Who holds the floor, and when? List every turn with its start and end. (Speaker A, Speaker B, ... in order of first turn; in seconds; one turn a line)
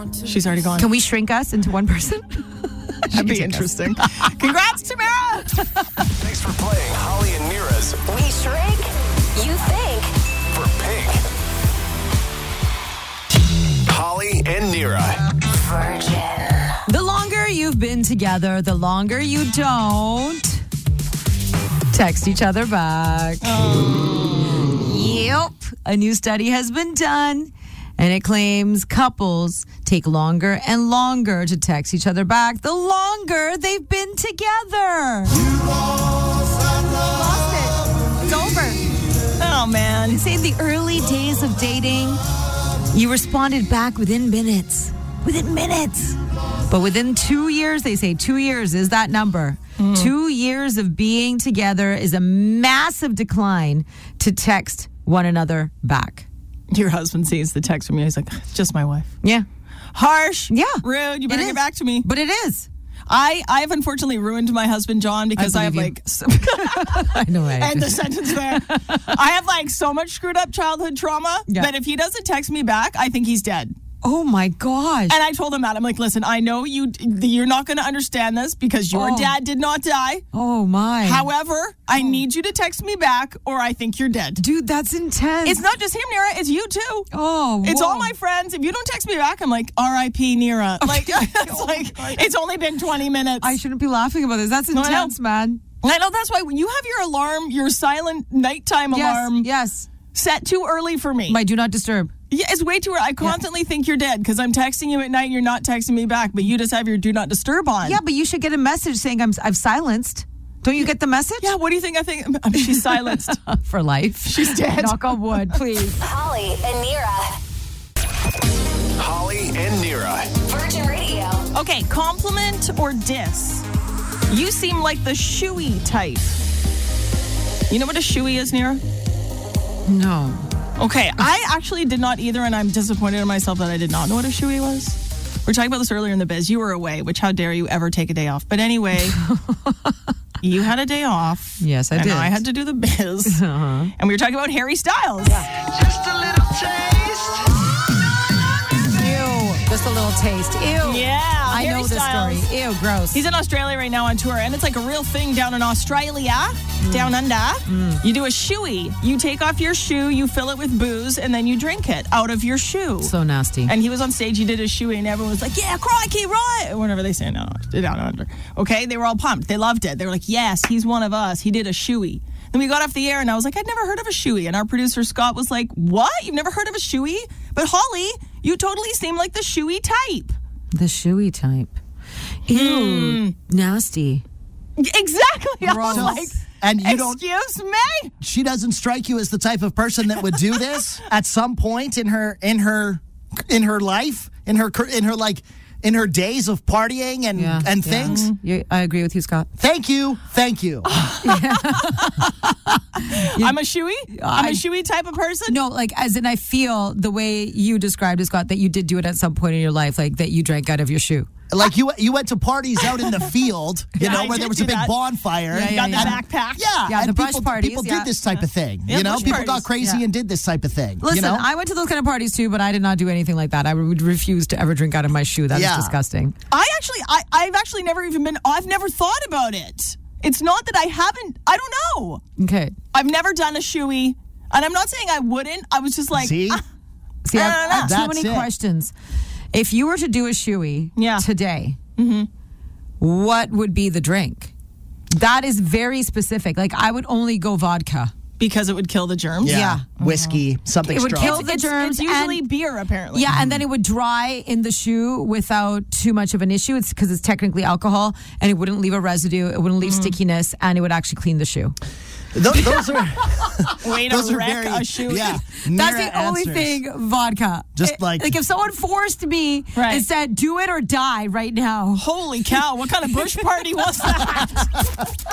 Speaker A: 0.2-0.9
Speaker B: 0.8-4.3
Speaker A: 3.1-5.7
Speaker C: 6.1-8.0
Speaker D: 8.1-10.1
Speaker C: 10.5-11.2
Speaker C: 13.9-15.2
Speaker D: 15.5-16.8
Speaker B: 16.9-20.6
Speaker B: 21.9-23.6
Speaker A: 23.4-24.7
Speaker B: 24.4-35.4
Speaker B: 37.1-38.8
Speaker A: 39.4-40.2
Speaker B: 40.1-42.2
Speaker B: 42.9-46.2
Speaker B: 46.7-56.3
Speaker A: 49.8-50.1
Speaker A: 56.7-59.1
Speaker A: 59.9-62.1
Speaker B: 60.5-62.7
Speaker A: 63.1-73.8
Speaker B: 65.4-69.2
Speaker B: 71.5-71.7
Speaker B: 74.0-75.2
Speaker A: 75.1-80.2
Speaker B: 78.9-79.4
Speaker B: 80.3-81.3
Speaker A: 81.0-84.4
Speaker B: 82.0-82.2
Speaker B: 84.4-85.6
Speaker A: 85.5-87.1
Speaker B: 87.1-88.2
Speaker A: 87.6-93.5
Speaker B: 90.8-92.2
Speaker B: 93.4-95.6
Speaker A: 94.7-95.1
Speaker A: 95.8-99.5
Speaker B: 98.9-99.9
Speaker A: 100.1-101.4
Speaker B: 101.3-102.1
Speaker A: 102.3-108.0
Speaker B: 107.8-111.5
Speaker A: 111.4-113.4
Speaker B: 112.5-116.0
Speaker A: 114.2-115.6
Speaker D: 116.0-117.4
Speaker C: 119.0-120.3
Speaker D: 120.5-121.5
Speaker A: 121.5-123.7
Speaker A: 124.3-126.4
Speaker A: 127.7-128.8
Speaker B: 129.9-130.5
Speaker A: 130.8-139.2
Speaker B: 139.1-140.0
Speaker A: 140.4-143.4
Speaker B: 141.6-142.4
Speaker B: 143.3-143.9
Speaker A: 144.0-145.5
Speaker E: 145.5-147.5
Speaker B: 148.9-153.2
Speaker A: 150.8-152.5
Speaker A: 153.1-163.1
Speaker B: 156.8-158.0
Speaker B: 163.0-163.7
Speaker A: 163.7-180.4
Speaker B: 180.7-181.8
Speaker B: 182.5-184.2
Speaker A: 182.5-183.3
Speaker A: 184.8-188.1
Speaker B: 185.6-186.4
Speaker E: 185.9-187.2
Speaker E: 188.2-198.2
Speaker B: 197.4-199.5
Speaker A: 197.9-198.3
Speaker E: 199.6-200.9
Speaker A: 200.8-202.3
Speaker B: 201.2-203.6
Speaker A: 203.0-205.6
Speaker B: 204.1-204.6
Speaker B: 205.5-211.3
Speaker E: 211.5-221.5
Speaker A: 214.0-214.9
Speaker B: 214.0-214.4
Speaker A: 215.5-216.7
Speaker B: 215.5-216.2
Speaker B: 216.8-218.1
Speaker A: 218.3-219.7
Speaker B: 219.1-220.0
Speaker B: 221.0-226.3
Speaker E: 225.5-225.9
Speaker A: 226.5-232.2
Speaker B: 232.4-232.8
Speaker A: 232.9-236.6
Speaker E: 236.1-236.6
Speaker B: 237.2-238.9
Speaker A: 237.3-237.9
Speaker E: 237.7-238.5
Speaker B: 239.5-241.8
Speaker A: 241.0-241.3
Speaker A: 242.0-242.3
Speaker B: 243.0-244.5
Speaker B: 245.1-248.1
Speaker A: 248.4-250.3
Speaker E: 249.4-251.5
Speaker B: 249.4-249.9
Speaker B: 250.8-252.4
Speaker A: 251.1-253.4
Speaker B: 253.1-261.8
Speaker E: 253.3-253.6
Speaker A: 259.8-260.1
Speaker E: 262.4-266.8
Speaker B: 262.6-263.0
Speaker A: 263.8-265.5
Speaker B: 265.7-272.0
Speaker E: 267.8-268.3
Speaker A: 269.8-270.1
Speaker A: 271.9-274.7